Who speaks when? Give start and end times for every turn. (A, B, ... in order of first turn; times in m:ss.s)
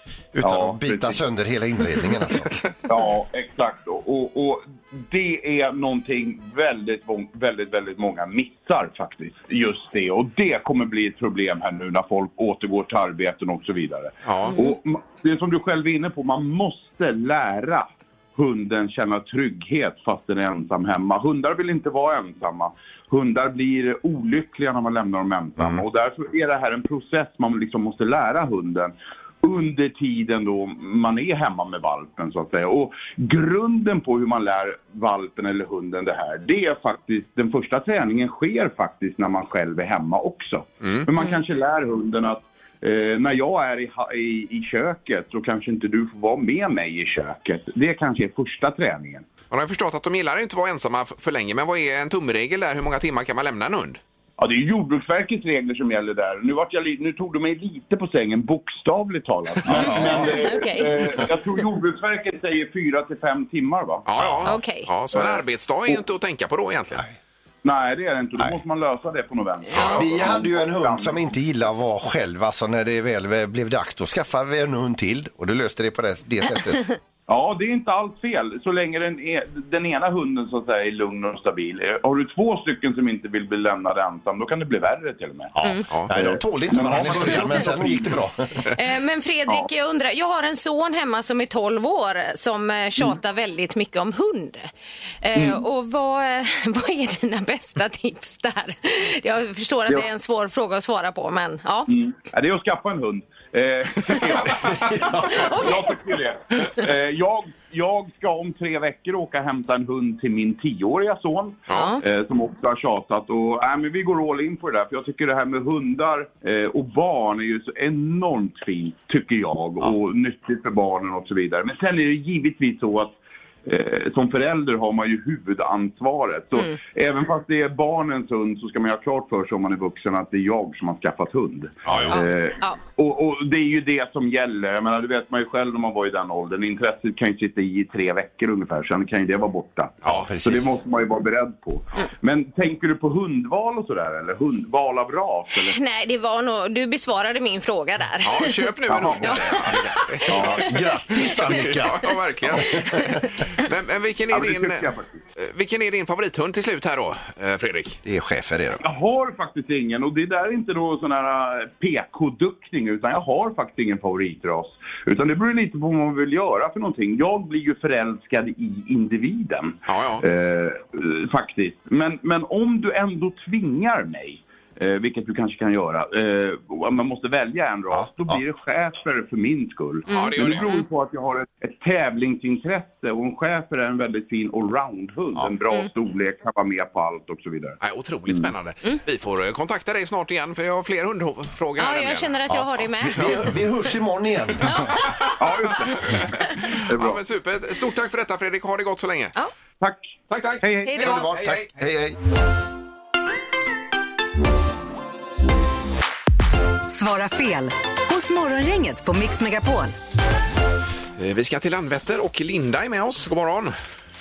0:00.3-0:02.7 A
0:00.4-0:01.2 B
0:02.9-0:49.3 B
0:14.2-0:14.6 C
0:49.5-0:54.0 C
0:54.4-1:04.0 B
0:59.7-1:00.2 A
0:59.7-1:00.9 D
1:04.0-1:07.0 C
1:04.2-1:04.4 A
1:04.4-1:04.9 D
1:05.1-1:06.0 B
1:07.6-1:11.2 B
1:09.8-1:10.1 C
1:09.8-1:17.0 A
1:17.3-1:25.5 B
1:25.6-1:28.5 A
1:26.1-1:28.2 B
1:28.7-1:34.7 D
1:35.2-1:41.9 D
1:35.3-1:35.6 B
1:41.9-2:25.8 B
1:45.3-1:45.9 D
1:51.7-1:52.0 D
2:11.8-2:12.2 C
2:11.9-2:12.2 A
2:20.0-2:20.3 C
2:20.0-2:20.8 A
2:25.6-2:30.2 D
2:28.2-2:30.6 C
2:28.9-2:30.6 B
2:30.4-2:33.2 A
2:31.2-2:31.6 D
2:31.4-2:33.0 C
2:32.7-2:33.2 D
2:33.5-2:38.0 C
2:34.3-2:35.2 B
2:38.0-2:38.8 A
2:38.8-3:07.8 B
2:49.9-2:50.2 C
2:57.9-2:58.4 A
3:00.1-3:00.8 C
3:00.1-3:00.8 D
3:07.8-3:12.3 C
3:11.8-3:13.3 D
3:12.5-3:15.2 A
3:13.1-3:13.5 C
3:14.8-3:15.3 D
3:15.4-3:17.2 B
3:15.9-3:19.3 C
3:19.8-3:21.0 B
3:20.3-3:21.7 C
3:20.8-3:21.2 D
3:21.0-3:22.2 A
3:26.9-3:29.9 E
3:31.2-3:33.7 C